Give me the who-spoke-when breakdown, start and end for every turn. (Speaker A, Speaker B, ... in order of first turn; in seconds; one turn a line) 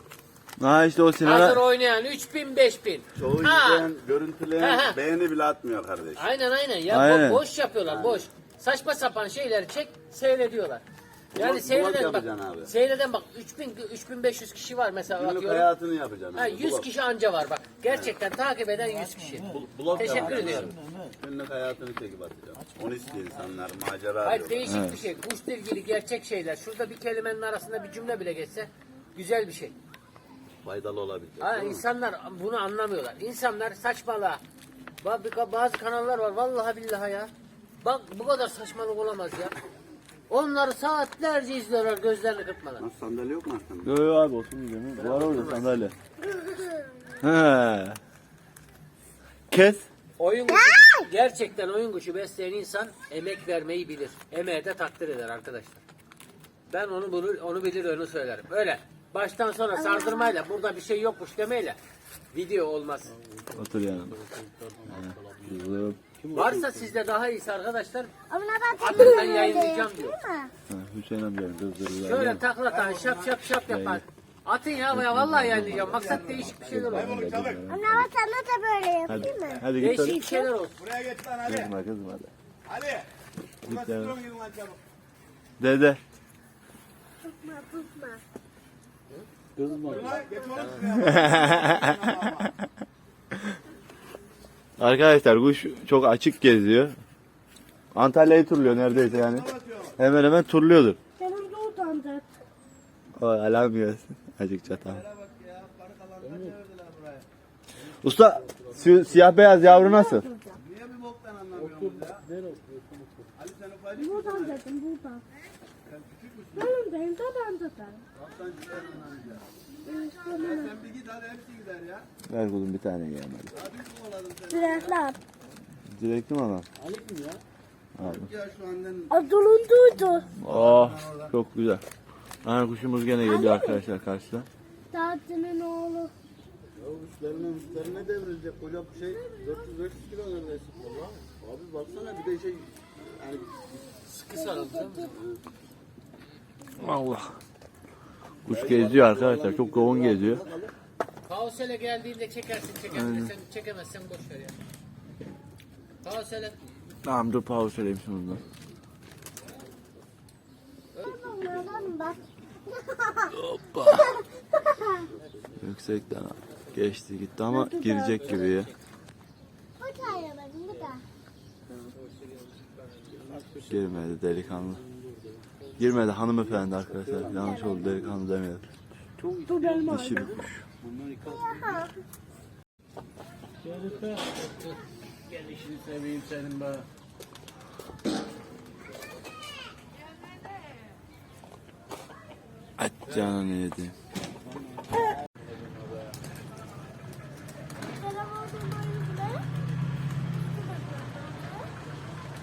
Speaker A: 0.6-1.6
Speaker B: 1.2-3.9
Speaker C: 3.1-6.2
Speaker B: 4.6-5.0
Speaker B: 6.2-10.8
Speaker A: 6.9-7.4
Speaker C: 7.9-8.2
Speaker C: 11.3-12.7
Speaker B: 11.3-15.7
Speaker C: 15.1-16.9
Speaker B: 16.3-20.7
Speaker C: 17.9-18.1
Speaker C: 19.5-24.6
Speaker B: 24.2-29.8
Speaker A: 24.6-25.0
Speaker C: 30.6-31.8
Speaker B: 31.4-34.4
Speaker B: 35.0-39.5
Speaker B: 40.3-42.8
Speaker C: 42.8-43.9
Speaker A: 43.8-45.9
Speaker C: 45.0-45.6
Speaker A: 47.2-48.0
Speaker A: 49.5-49.8
Speaker B: 50.2-55.8
Speaker B: 56.7-61.8
Speaker D: 59.8-60.3
Speaker B: 62.3-63.1
Speaker E: 63.1-65.6
Speaker A: 63.5-64.2
Speaker A: 64.9-66.0
Speaker E: 66.2-66.9
Speaker B: 66.3-68.1
Speaker D: 68.3-70.5
Speaker B: 68.8-70.2
Speaker A: 70.7-72.4
Speaker B: 72.0-77.2
Speaker C: 72.8-73.2
Speaker A: 73.5-74.0
Speaker A: 74.9-78.1
Speaker C: 77.2-77.6
Speaker D: 77.7-79.6
Speaker A: 79.0-80.2
Speaker B: 79.7-80.8
Speaker D: 80.2-80.5
Speaker C: 80.8-81.7
Speaker A: 81.4-82.3
Speaker C: 82.7-83.0
Speaker A: 83.7-84.2
Speaker C: 83.7-84.8
Speaker A: 85.6-86.0
Speaker D: 87.2-88.2
Speaker E: 89.5-90.2
Speaker D: 89.9-91.0
Speaker C: 90.2-92.5
Speaker A: 91.0-91.9
Speaker A: 94.8-97.0
Speaker A: 97.9-101.0
Speaker C: 99.5-99.9
Speaker D: 101.2-102.3
Speaker A: 103.2-105.0
Speaker C: 104.9-107.2
Speaker E: 106.2-106.6
Speaker A: 108.0-110.2
Speaker E: 108.2-109.3
Speaker D: 109.6-110.6
Speaker C: 110.5-112.2
Speaker E: 111.5-113.3
Speaker C: 113.4-114.6
Speaker D: 114.0-115.2
Speaker C: 115.9-116.7
Speaker D: 116.5-118.0
Speaker C: 118.2-119.5
Speaker D: 119.8-120.8
Speaker C: 120.3-122.1
Speaker A: 122.2-123.5
Speaker C: 123.5-125.0
Speaker D: 124.5-125.2
Speaker A: 125.9-126.7
Speaker E: 126.8-127.4
Speaker A: 128.0-128.3
Speaker C: 128.2-129.1
Speaker D: 129.1-130.3
Speaker A: 130.4-131.8
Speaker C: 130.5-131.3
Speaker A: 132.4-134.5
Speaker D: 133.2-133.8
Speaker D: 134.9-136.1
Speaker C: 136.8-143.6
Speaker B: 144.1-145.1
Speaker C: 145.1-145.4
Speaker A: 146.8-147.3
Speaker A: 148.4-150.4
Speaker C: 148.5-150.7
Speaker B: 151.2-154.5
Speaker A: 152.9-153.3
Speaker B: 156.0-156.6
Speaker A: 157.0-158.4
Speaker B: 161.0-161.7
Speaker D: 161.0-163.3
Speaker A: 163.3-164.2
Speaker D: 163.9-165.1
Speaker A: 165.6-168.7
Speaker D: 167.5-168.3
Speaker B: 168.3-168.7
Speaker D: 169.8-171.0
Speaker E: 173.1-173.8
Speaker A: 173.7-174.8
Speaker E: 174.7-175.0
Speaker A: 175.8-178.6
Speaker C: 177.0-177.6
Speaker D: 177.3-178.1
Speaker E: 179.2-181.8
Speaker D: 179.5-180.3
Speaker A: 179.8-180.6
Speaker D: 181.2-181.9
Speaker E: 183.6-184.6
Speaker E: 185.3-186.8
Speaker A: 192.8-193.9
Speaker E: 194.5-196.1
Speaker D: 197.9-199.4
Speaker D: 200.6-201.7